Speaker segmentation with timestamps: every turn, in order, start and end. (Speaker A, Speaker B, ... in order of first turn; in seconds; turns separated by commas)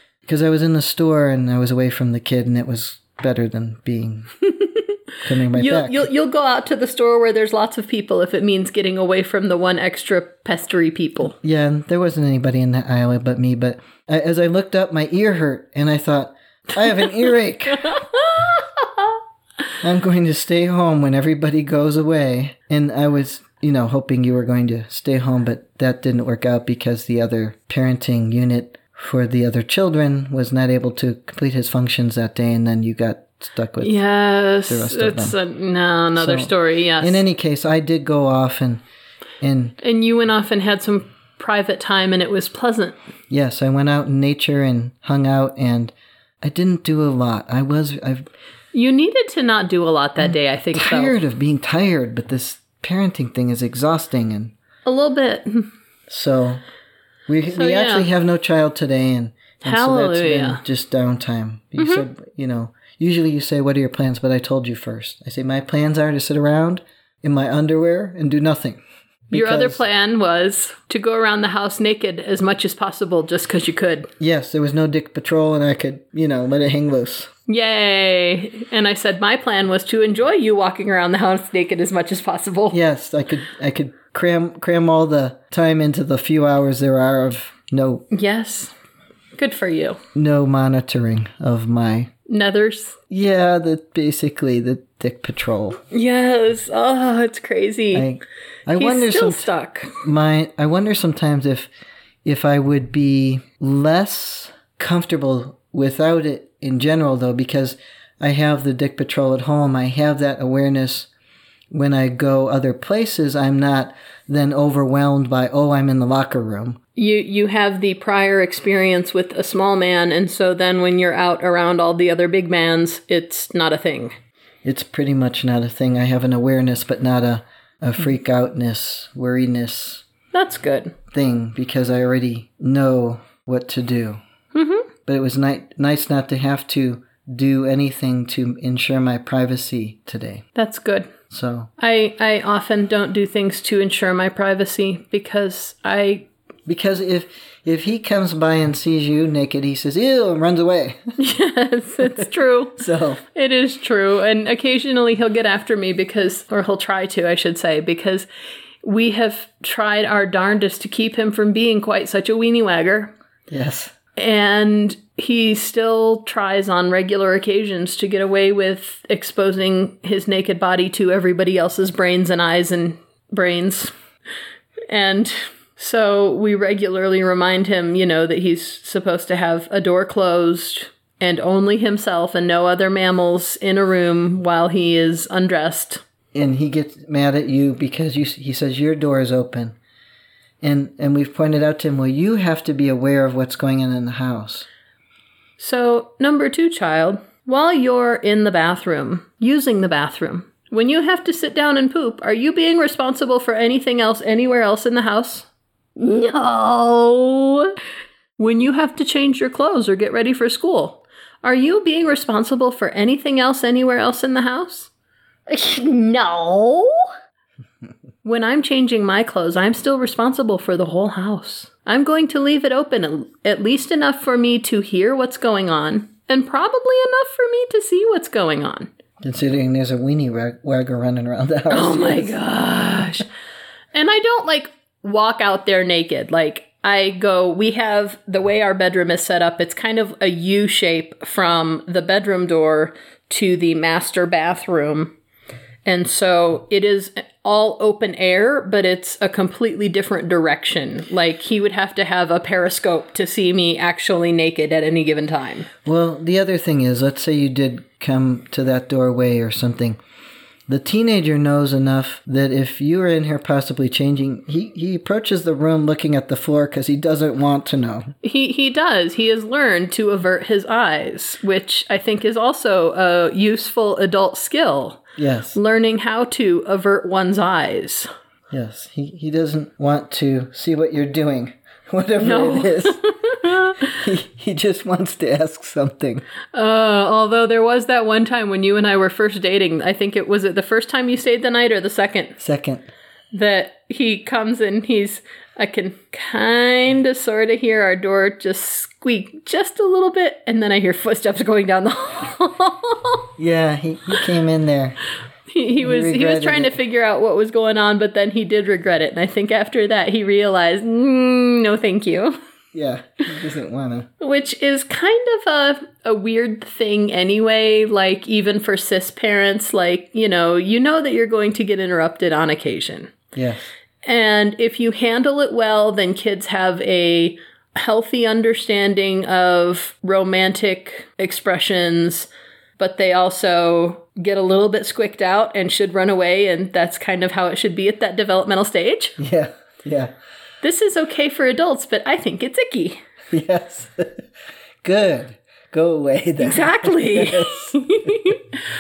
Speaker A: 0.2-4.3, Speaker B: 4.5-5.0, Speaker A: 5.2-6.1, Speaker B: 5.5-11.3, Speaker A: 11.4-18.0, Speaker B: 17.8-19.1, Speaker A: 19.8-34.0, Speaker B: 33.8-37.2, Speaker A: 34.7-35.4, Speaker A: 36.2-38.8, Speaker A: 39.4-39.8, Speaker B: 39.8-43.0, Speaker A: 43.3-48.3, Speaker B: 48.7-51.2, Speaker A: 50.2-54.5, Speaker B: 54.9-55.7, Speaker A: 56.1-56.6, Speaker A: 57.3-69.8, Speaker B: 57.5-58.1, Speaker B: 59.6-60.6, Speaker B: 61.8-62.0, Speaker B: 69.3-74.1, Speaker A: 74.2-77.3, Speaker B: 77.5-82.8, Speaker A: 82.7-88.1, Speaker B: 88.1-88.7, Speaker B: 89.4-90.0, Speaker A: 90.2-92.1, Speaker B: 92.3-93.0, Speaker A: 93.1-95.8, Speaker B: 95.9-98.1, Speaker A: 97.9-99.5, Speaker B: 98.7-100.0, Speaker A: 100.0-101.7, Speaker A: 102.2-111.1, Speaker A: 111.7-116.8, Speaker B: 117.0-124.2, Speaker A: 124.6-130.0, Speaker B: 130.3-130.9, Speaker A: 131.1-134.2, Speaker B: 134.5-134.9, Speaker A: 135.1-140.4, Speaker B: 140.6-141.1, Speaker A: 141.3-141.7, Speaker B: 141.8-146.3, Speaker A: 146.7-151.0, Speaker B: 151.2-158.3, Speaker A: 152.8-153.2, Speaker B: 158.8-163.1, Speaker A: 163.5-163.9, Speaker B: 164.2-173.9, Speaker B: 174.9-186.0, Speaker A: 186.3-189.8, Speaker A: 190.6-194.7, Speaker B: 195.6-207.8, Speaker B: 208.4-214.9, Speaker B: 215.5-217.0, Speaker B: 218.2-228.9, Speaker A: 229.2-232.4, Speaker B: 231.7-233.2, Speaker B: 233.9-245.2, Speaker B: 245.8-255.7, Speaker A: 255.8-260.0, Speaker A: 260.7-268.1, Speaker B: 268.2-275.0, Speaker A: 275.2-275.6, Speaker B: 275.6-278.1, Speaker A: 278.5-286.2, Speaker B: 282.2-283.9, Speaker B: 286.5-292.4, Speaker A: 292.4-292.9, Speaker B: 293.3-303.2, Speaker A: 303.4-305.0, Speaker B: 305.5-312.4, Speaker A: 305.8-306.8, Speaker A: 312.7-314.1, Speaker B: 314.2-323.1, Speaker A: 323.3-323.7, Speaker B: 324.1-339.2, Speaker A: 339.2-340.1, Speaker B: 340.6-343.0, Speaker A: 343.3-344.2, Speaker A: 344.8-347.8, Speaker B: 346.4-348.4